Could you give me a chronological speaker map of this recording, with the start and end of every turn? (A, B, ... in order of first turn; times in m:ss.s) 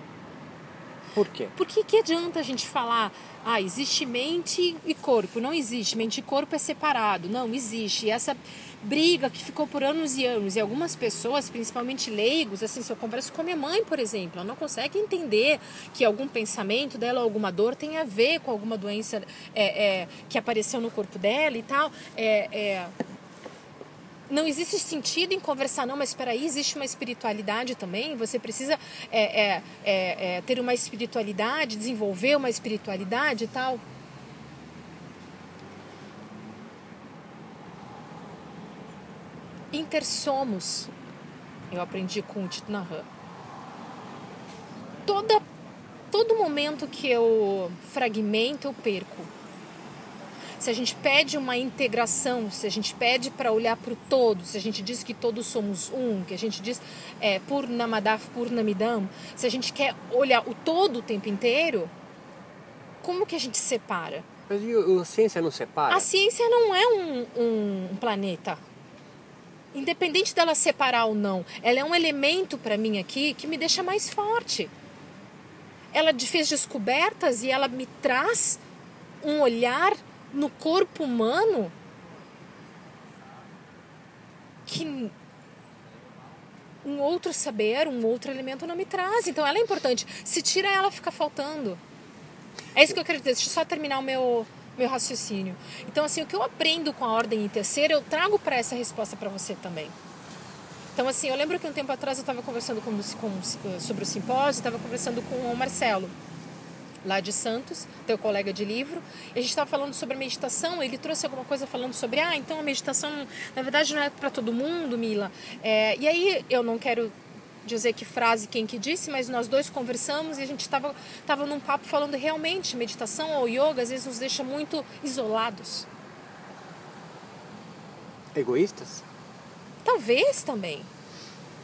0:01.1-0:01.5 A
0:01.6-0:22.9 B
0:24.3-0:33.8 B
0:39.7-0:40.9 B
0:41.7-0:43.1 B
0:45.0-0:45.4 B
0:46.1-0:49.3 B
0:50.6-1:01.9 B
1:03.0-1:04.3 B
1:04.5-1:06.1 A
1:05.9-1:08.6 B
1:09.7-1:14.7 B
1:15.9-1:18.6 B
1:19.2-1:21.7 B
1:24.6-1:25.1 B
1:26.8-1:31.8 B
1:32.7-1:39.9 B
1:40.9-1:46.1 B
1:47.0-1:57.1 B
1:57.6-2:05.9 B
2:08.3-2:09.0 A
2:09.8-2:10.9 B